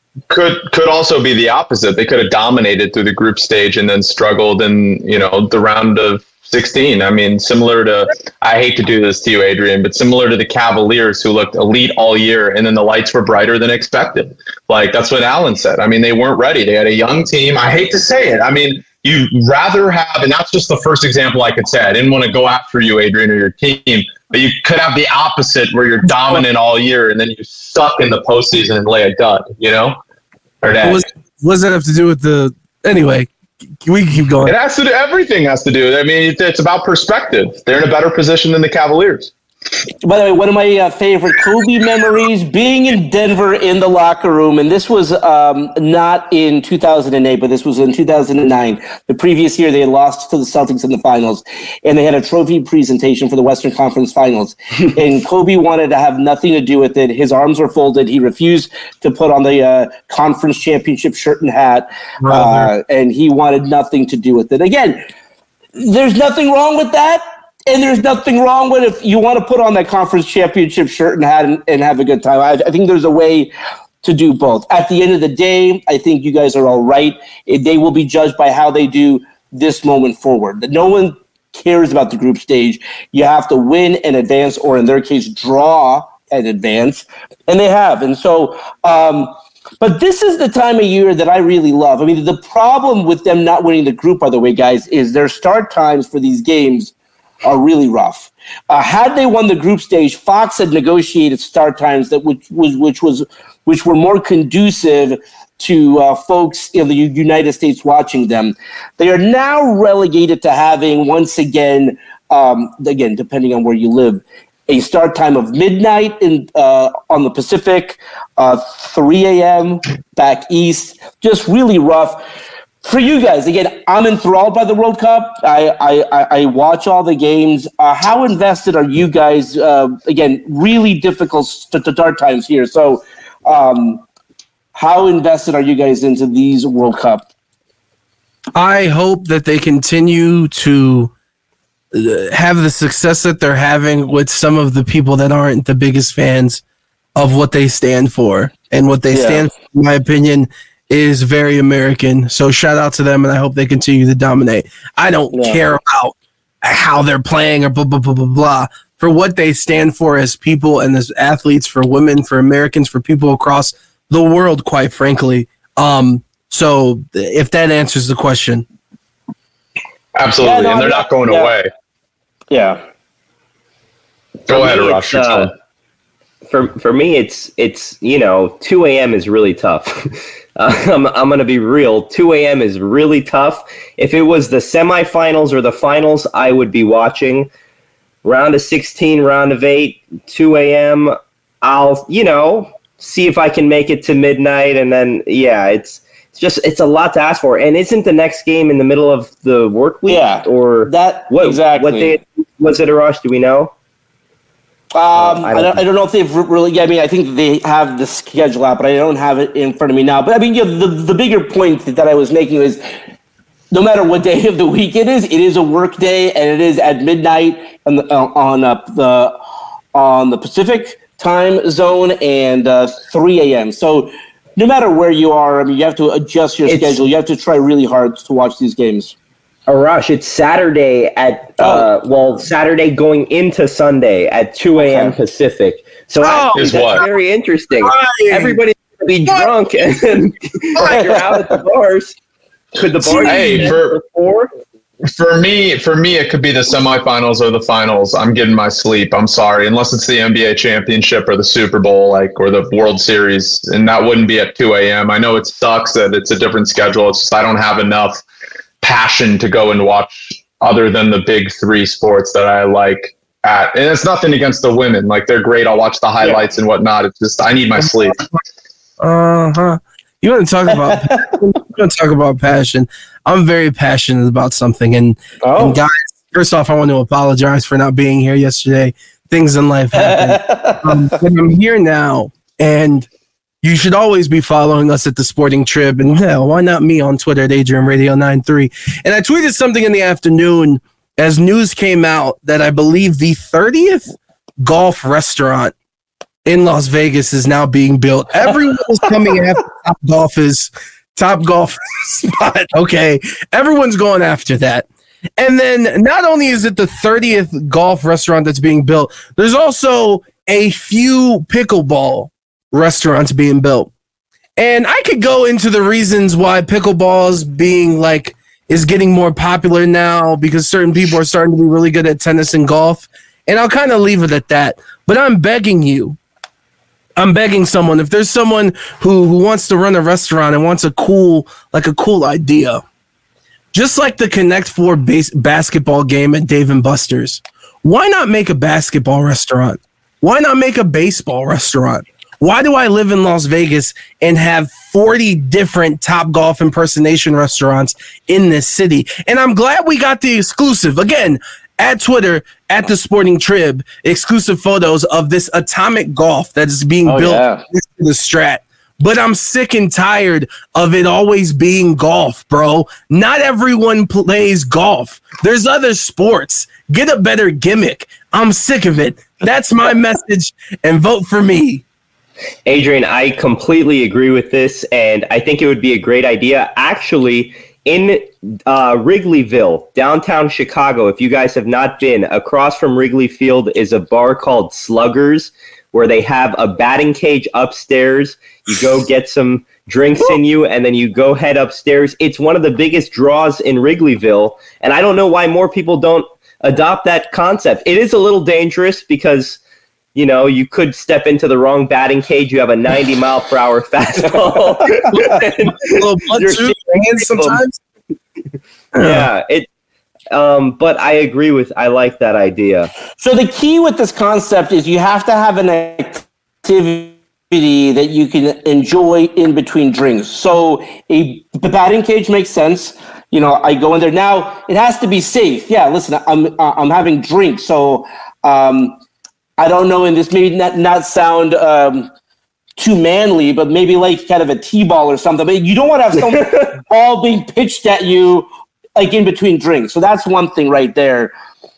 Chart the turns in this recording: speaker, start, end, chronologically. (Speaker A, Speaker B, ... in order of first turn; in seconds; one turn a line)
Speaker A: 0.3-30.0
Speaker A: 30.6-31.0
Speaker B: 30.8-33.3
Speaker B: 33.8-34.5
Speaker A: 34.4-39.3
Speaker C: 40.0-65.0
Speaker B: 62.2-62.7
Speaker C: 65.8-73.5
Speaker C: 74.0-96.9
Speaker C: 97.5-122.2
Speaker C: 122.8-134.0
Speaker C: 134.7-137.2
Speaker B: 138.6-141.1
Speaker B: 141.9-146.6
Speaker B: 147.2-168.6
Speaker C: 149.1-149.5
Speaker C: 155.3-155.7
Speaker A: 170.2-171.7
Speaker C: 170.4-171.5
Speaker C: 172.5-172.8
Speaker A: 174.5-175.5
Speaker D: 174.5-175.5
Speaker D: 176.5-187.5
Speaker D: 188.2-203.7
Speaker C: 200.1-202.2
Speaker C: 204.9-212.9
Speaker D: 205.2-205.8
Speaker C: 213.7-219.4
Speaker C: 219.9-229.2
Speaker D: 226.7-227.0
Speaker D: 229.7-242.2
Speaker C: 231.6-231.9
Speaker C: 234.8-235.2
Speaker B: 236.2-237.1
Speaker A: 236.6-237.0
Speaker B: 237.8-238.6
Speaker B: 239.3-239.5
Speaker C: 240.9-241.3
Speaker D: 242.8-244.5
Speaker A: 243.2-244.0
Speaker A: 245.1-258.2
Speaker A: 258.8-268.2
Speaker B: 269.0-283.1
Speaker C: 270.9-271.3
Speaker C: 275.4-275.8
Speaker C: 279.9-281.1
Speaker B: 283.6-295.7
Speaker B: 296.5-304.9
Speaker C: 302.3-302.7
Speaker B: 305.4-313.9
Speaker B: 314.6-326.2
Speaker B: 327.2-332.8
Speaker B: 333.7-371.8
Speaker C: 357.0-357.6
Speaker D: 372.7-399.6
Speaker D: 400.1-407.6
Speaker B: 405.9-407.8
Speaker D: 409.0-409.7
Speaker B: 409.0-409.3
Speaker D: 410.3-412.9
Speaker C: 413.2-429.0
Speaker C: 429.6-432.1
Speaker C: 432.8-441.3